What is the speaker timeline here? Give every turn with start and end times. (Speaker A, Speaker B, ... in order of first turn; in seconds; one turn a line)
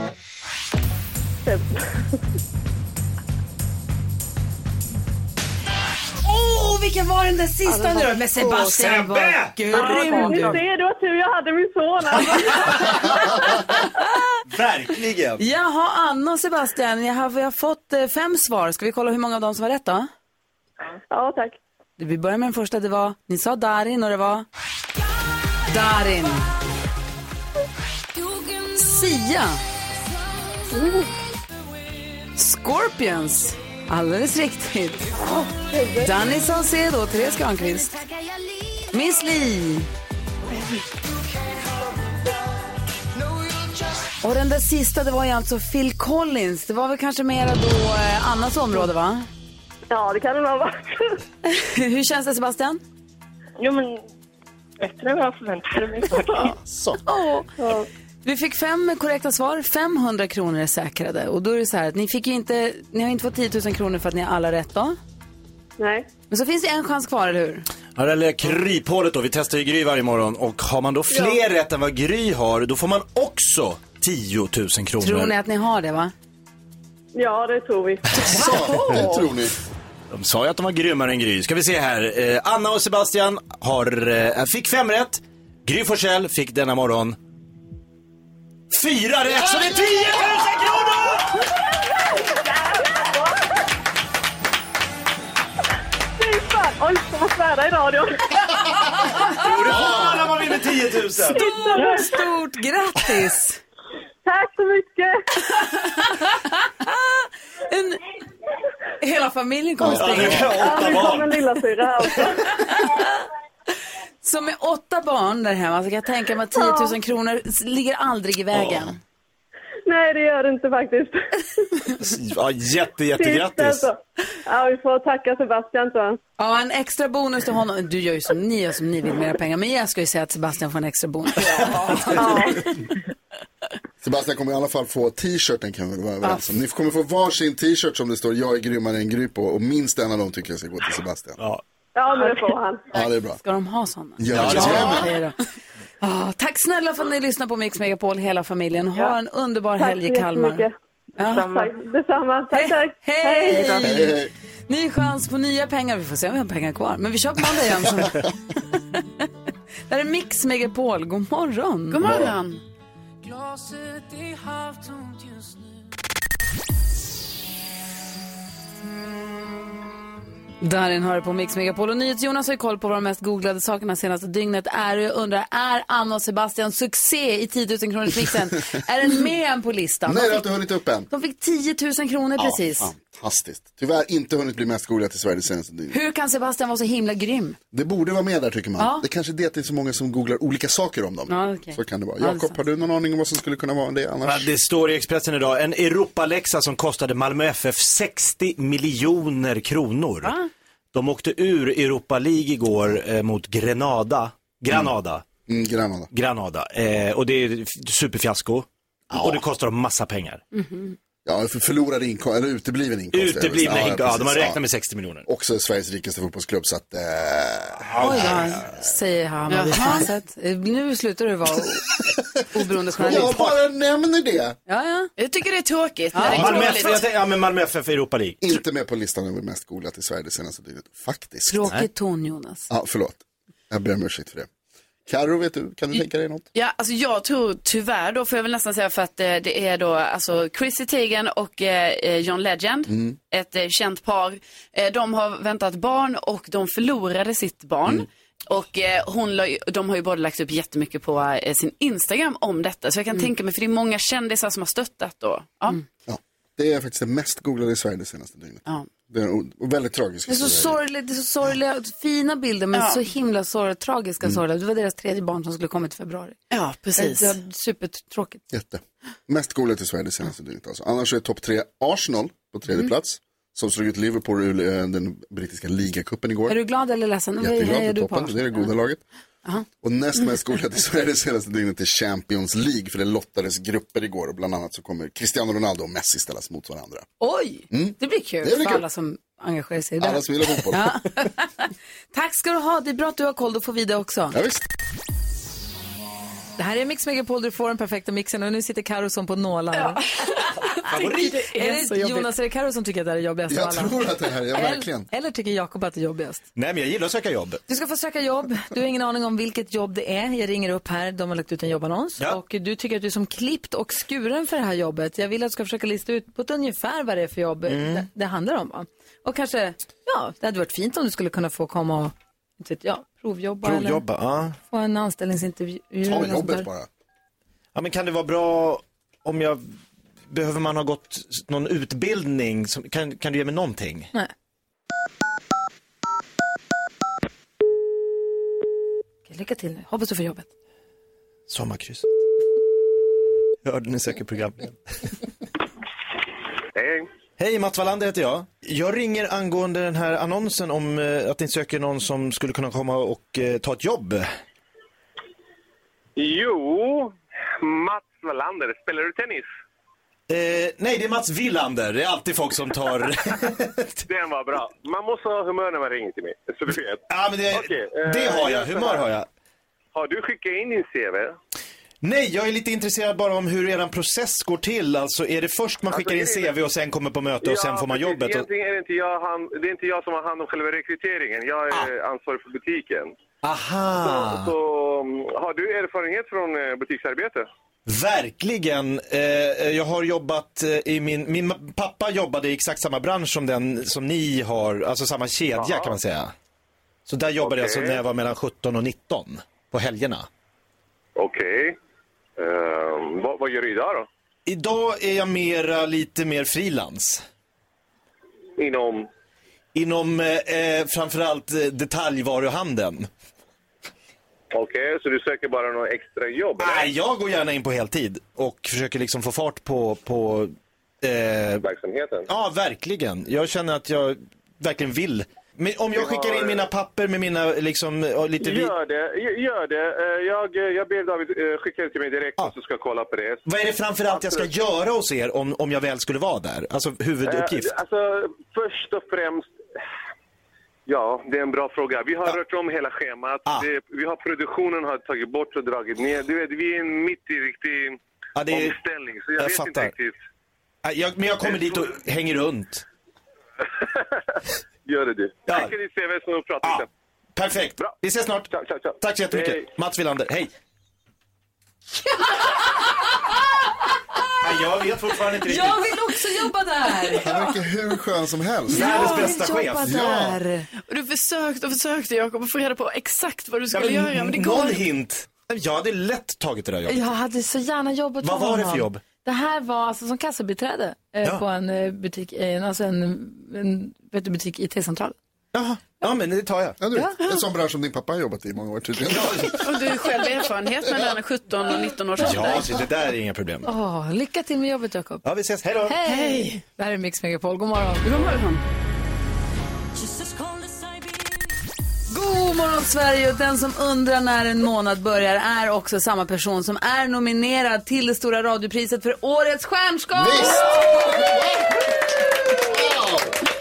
Speaker A: 1.4-1.8
Speaker B: 6.2-10.6
Speaker C: 8.6-9.7
Speaker A: 9.7-13.5
Speaker D: 9.8-10.6
Speaker B: 13.8-14.4
Speaker C: 14.5-15.4
Speaker B: 15.4-20.1
Speaker A: 21.1-21.6
Speaker B: 22.0-24.4
Speaker B: 25.6-26.5
Speaker B: 28.7-29.6
Speaker A: 30.7-31.0
Speaker B: 32.3-35.1
Speaker A: 35.1-36.1
Speaker B: 36.0-38.0
Speaker B: 38.9-39.9
Speaker B: 44.2-49.3
Speaker A: 49.9-51.1
Speaker B: 51.5-52.8
Speaker D: 53.6-54.0
Speaker D: 54.8-56.5
Speaker E: 56.5-57.0
Speaker B: 57.0-57.5
Speaker A: 57.6-57.9
Speaker B: 58.2-65.0
Speaker A: 65.8-66.1
Speaker B: 66.3-67.7
Speaker C: 68.0-75.3
Speaker A: 71.1-71.4
Speaker B: 75.0-76.1
Speaker A: 77.1-78.1
Speaker B: 78.2-79.3
Speaker E: 78.2-79.5
Speaker C: 80.1-87.2
Speaker C: 88.7-91.4
Speaker A: 92.0-93.5
Speaker A: 96.2-100.4
Speaker C: 99.4-101.7
Speaker B: 99.4-99.9
Speaker A: 101.2-102.3
Speaker B: 101.3-103.6
Speaker A: 104.2-105.2
Speaker B: 105.8-108.0
Speaker B: 109.0-110.9
Speaker C: 109.8-111.4
Speaker A: 110.5-112.8
Speaker B: 114.2-119.0
Speaker A: 116.5-117.0
Speaker C: 118.5-118.9
Speaker A: 119.9-121.9
Speaker C: 122.0-123.9
Speaker A: 123.1-126.2
Speaker B: 126.4-132.5
Speaker C: 131.5-132.1
Speaker A: 132.1-132.7
Speaker E: 134.0-141.4
Speaker A: 141.9-142.9
Speaker E: 142.9-143.4
Speaker B: 143.4-145.4
Speaker E: 144.2-145.1
Speaker C: 144.3-145.1
Speaker B: 146.0-151.4
Speaker A: 149.8-150.7
Speaker D: 151.3-151.7
Speaker A: 151.4-154.1
Speaker B: 152.5-154.2
Speaker E: 153.8-154.3
Speaker B: 154.7-159.3
Speaker B: 159.9-162.0
Speaker F: 161.9-162.6
Speaker E: 162.0-162.3
Speaker B: 170.6-180.5
Speaker E: 180.1-181.1
Speaker B: 181.1-182.9
Speaker E: 182.4-186.0
Speaker B: 185.9-187.6
Speaker E: 187.7-194.5
Speaker B: 188.8-189.1
Speaker B: 191.3-192.6
Speaker C: 194.2-200.3
Speaker C: 200.9-205.2
Speaker E: 205.5-206.1
Speaker C: 206.1-210.4
Speaker E: 209.1-209.4
Speaker B: 210.6-210.9
Speaker E: 211.2-214.6
Speaker C: 213.1-215.3
Speaker E: 215.2-218.6
Speaker C: 217.8-218.6
Speaker B: 218.0-221.9
Speaker F: 219.5-220.0
Speaker B: 222.4-223.6
Speaker E: 223.0-224.6
Speaker B: 224.7-225.1
Speaker F: 225.2-227.0
Speaker B: 226.1-226.7
Speaker C: 226.2-228.4
Speaker E: 228.4-231.7
Speaker B: 231.5-232.7
Speaker E: 232.7-234.5
Speaker E: 235.1-236.4
Speaker F: 236.5-255.8
Speaker E: 242.9-243.2
Speaker E: 256.1-260.8
Speaker B: 260.3-266.4
Speaker F: 262.7-263.0
Speaker F: 266.5-267.3
Speaker B: 266.9-268.4
Speaker E: 268.5-276.6
Speaker B: 276.5-278.7
Speaker E: 277.4-279.0
Speaker E: 279.8-287.1
Speaker B: 287.2-294.4
Speaker E: 287.7-288.8
Speaker E: 290.0-291.0
Speaker E: 294.3-294.6
Speaker B: 296.6-306.4
Speaker F: 299.7-302.3
Speaker C: 300.7-301.3
Speaker E: 303.5-305.1
Speaker C: 306.6-307.6
Speaker B: 307.7-324.0
Speaker C: 317.7-318.1
Speaker C: 323.6-324.6
Speaker B: 324.7-326.7
Speaker E: 326.0-326.9
Speaker C: 327.7-329.6
Speaker C: 330.3-334.1
Speaker B: 339.3-340.5
Speaker C: 341.5-342.1
Speaker C: 343.6-344.7
Speaker G: 346.8-347.1
Speaker C: 347.4-354.3
Speaker G: 356.2-359.5
Speaker C: 360.3-364.0
Speaker G: 364.1-369.1
Speaker C: 367.1-369.3
Speaker G: 369.9-371.4
Speaker C: 372.0-378.5
Speaker G: 375.9-376.6
Speaker G: 377.4-383.1
Speaker C: 383.4-384.5
Speaker G: 384.0-387.4
Speaker C: 387.9-396.3
Speaker G: 395.5-396.0
Speaker C: 397.1-400.3
Speaker G: 397.4-398.0
Speaker G: 401.2-401.8
Speaker G: 402.4-404.1
Speaker C: 404.4-407.2
Speaker G: 408.6-409.1
Speaker C: 409.7-413.1
Speaker G: 414.5-416.9
Speaker C: 416.6-421.6
Speaker G: 421.6-422.3
Speaker C: 422.3-428.7
Speaker G: 425.9-426.7
Speaker G: 428.4-433.4
Speaker C: 433.4-437.7
Speaker G: 434.1-434.5
Speaker G: 437.2-439.5
Speaker G: 440.9-450.1
Speaker C: 448.4-448.8
Speaker C: 449.4-449.9
Speaker C: 450.8-452.8
Speaker G: 451.4-451.8
Speaker G: 454.9-456.9
Speaker C: 456.6-460.5
Speaker G: 457.8-459.7
Speaker B: 462.1-463.3
Speaker C: 464.4-465.9
Speaker B: 465.4-467.5
Speaker E: 467.2-469.2
Speaker B: 468.7-470.7
Speaker C: 468.7-470.4
Speaker F: 468.9-469.3
Speaker F: 470.9-474.8
Speaker C: 473.7-477.0
Speaker B: 476.9-485.1
Speaker C: 478.2-479.0
Speaker C: 485.5-486.8
Speaker E: 486.8-489.6
Speaker C: 489.1-489.6
Speaker F: 489.6-492.7
Speaker C: 492.2-493.7
Speaker B: 493.6-495.2
Speaker C: 495.2-496.0
Speaker B: 495.8-498.1
Speaker F: 496.1-496.6
Speaker F: 498.0-498.6
Speaker B: 502.1-511.4
Speaker E: 510.1-511.8
Speaker E: 512.5-513.4